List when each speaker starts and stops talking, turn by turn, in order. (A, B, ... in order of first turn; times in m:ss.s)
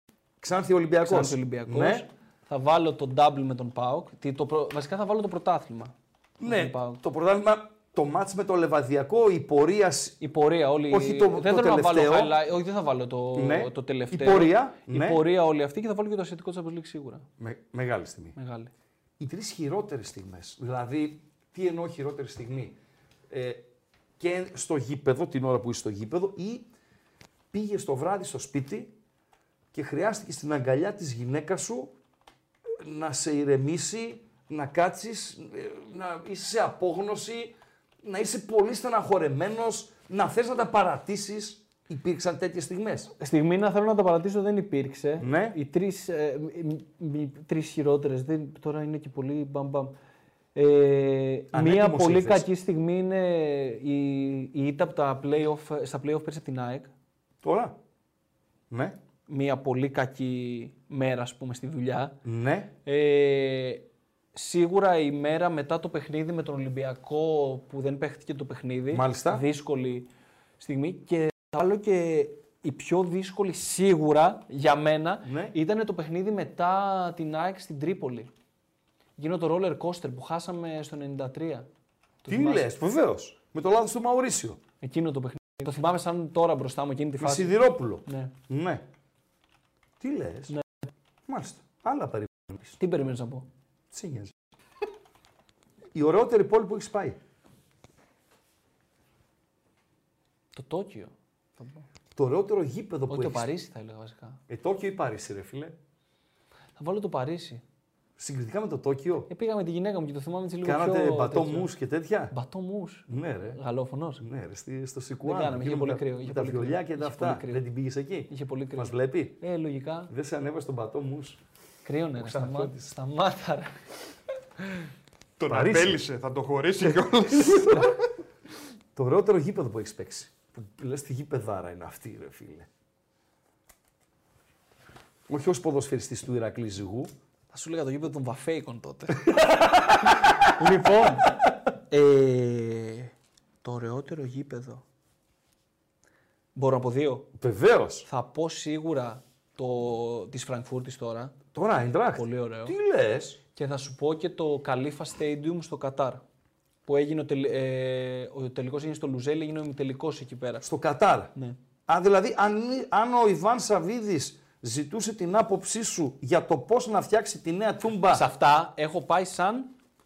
0:00.4-0:02.0 A
0:01.0-0:07.0 B
0:06.4-0:10.2 A
0:10.2-0:17.3 B
0:10.9-0:12.4 A
0:13.4-0:15.2 A
0:17.4-0:18.4 A
0:18.4-0:18.7 B
0:19.2-0:22.8 A
0:23.3-0:23.6 A
0:24.2-0:26.7 A
0:27.5-0:28.9 A
0:29.7-0:31.9 A
0:32.8-0:43.1 A
0:43.2-0:49.9 B
0:45.2-0:45.6 A
0:50.6-0:56.9 B
0:51.5-0:52.5 A
0:57.4-0:57.8 A
0:58.7-0:59.0 A
0:59.3-1:02.2 B
1:02.2-1:02.7 A
1:02.8-1:10.1 B
1:08.9-1:09.4 A
1:10.6-1:18.3 B
1:15.2-1:15.5 A
1:19.2-1:21.7 B
1:22.2-1:22.7 B
1:22.3-1:24.6 A
1:24.8-1:28.3 B
1:27.2-1:28.8 A
1:30.0-1:30.5 A
1:31.3-1:32.8 A
1:32.8-1:33.5 B
1:33.9-1:34.3 A
1:35.9-1:37.2 A
1:40.5-1:41.8 B
1:42.2-1:43.5 A
1:43.1-1:44.4 B
1:44.5-1:45.8 A
1:46.8-1:47.6 B
1:48.2-1:49.3 A
1:49.3-1:51.7 B
1:50.6-1:52.3 A
1:52.3-1:54.2 B
1:53.1-1:53.6 A
1:54.2-1:59.4 A
1:55.2-1:57.6 B
1:58.3-2:00.1 B
2:00.1-2:01.4 A
2:01.8-2:03.8 B
2:02.2-2:02.9 A
2:05.4-2:08.0 C
2:05.5-2:06.0 A
2:07.3-2:08.0 A
2:09.0-2:12.7 A
2:15.3-2:17.1 A
2:17.5-2:19.4 B
2:20.5-2:21.3 B
2:21.9-2:23.1 B
2:23.6-2:24.8 B
2:26.6-2:27.3 B
2:27.4-2:28.1 A
2:28.1-2:31.4 B
2:31.5-2:33.4 A
2:32.2-2:32.8 B
2:33.5-2:36.2 B
2:36.9-2:40.6 B
2:40.6-2:41.3 A
2:41.9-2:48.2 A
2:48.1-2:49.7 B